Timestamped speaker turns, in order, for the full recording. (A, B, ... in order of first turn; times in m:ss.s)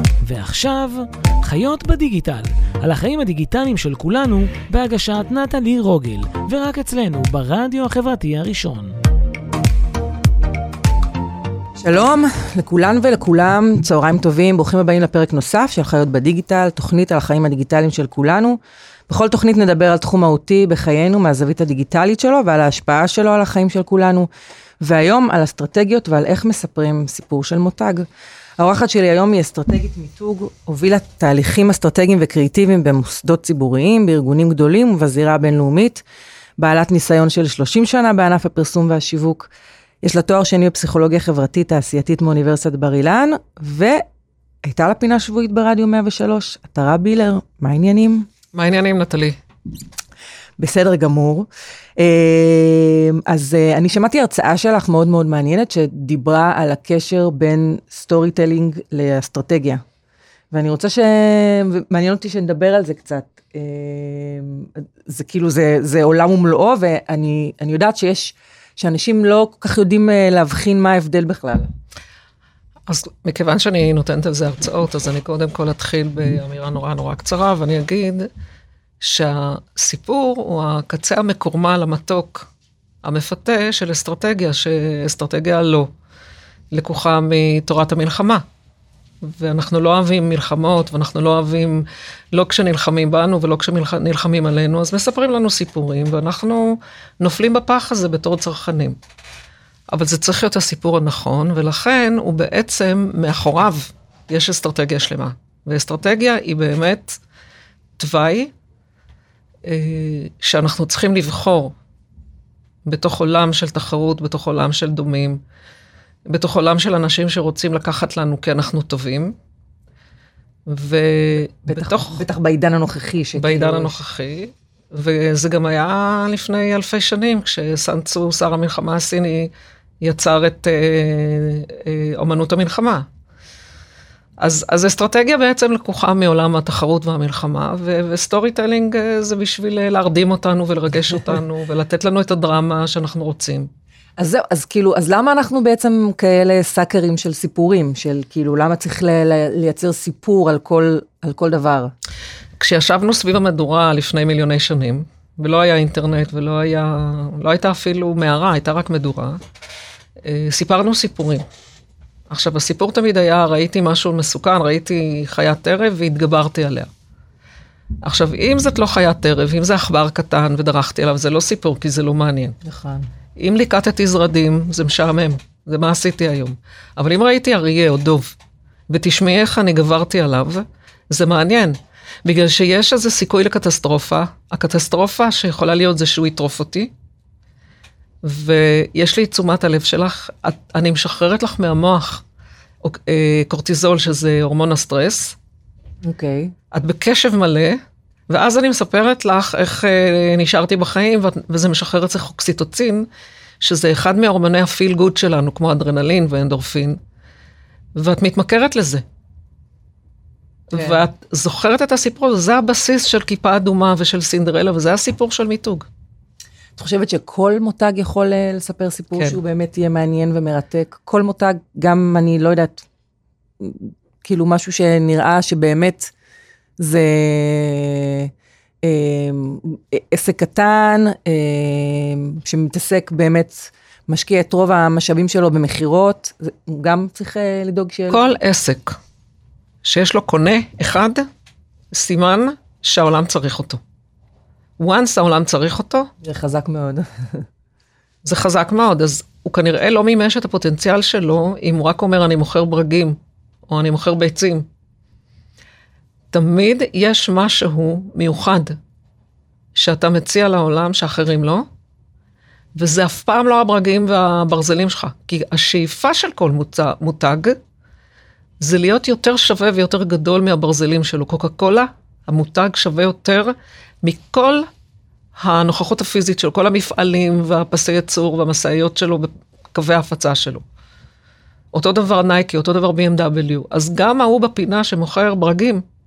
0:00.2-0:08.9 A
0:11.8-0:18.6 B
0:19.1-0:24.3 B
0:24.8-0:28.1 B
0:28.6-0:36.0 B
0:36.6-0:39.5 B
0:40.0-0:44.0 B
0:44.6-0:48.3 B
0:48.5-0:49.4 C
0:50.6-0:59.8 B
1:00.5-1:11.7 B
1:12.9-1:18.3 C
1:19.0-1:22.5 C
1:23.0-1:25.9 C
1:26.7-1:28.4 C
1:29.2-1:39.0 C
1:39.9-1:47.2 C
1:48.0-1:48.5 C
1:49.6-1:51.7 C
1:52.8-1:55.4 C
1:56.3-1:59.3 C
2:00.7-2:02.2 C
2:01.6-2:03.9 B
2:03.4-2:13.0 C
2:14.4-2:23.7 C
2:24.2-2:31.9 B
2:32.6-2:39.4 C
2:40.2-2:41.4 C
2:42.3-2:46.9 C
2:48.0-2:52.6 C
2:52.6-2:53.1 B
2:53.4-2:58.3 C
2:58.9-3:06.9 C
3:08.2-3:12.2 C
3:12.8-3:15.4 C
3:16.0-3:16.5 B
3:16.7-3:17.8 C
3:18.3-3:23.1 C
3:23.6-3:27.0 C
3:28.0-3:29.0 C
3:30.7-3:35.9 C
3:30.7-3:31.0 B
3:36.8-3:42.8 B
3:43.6-3:46.1 B
3:46.8-3:48.3 B
3:48.8-3:58.3 B
3:58.1-3:59.0 C
3:59.8-4:01.2 C
4:01.9-4:03.8 C
4:04.8-4:06.1 C
4:06.2-4:07.4 B
4:08.2-4:14.6 C
4:16.3-4:18.8 C
4:19.7-4:21.6 C
4:22.8-4:27.6 C
4:28.6-4:34.7 C
4:35.4-4:40.6 C
4:41.7-4:45.8 C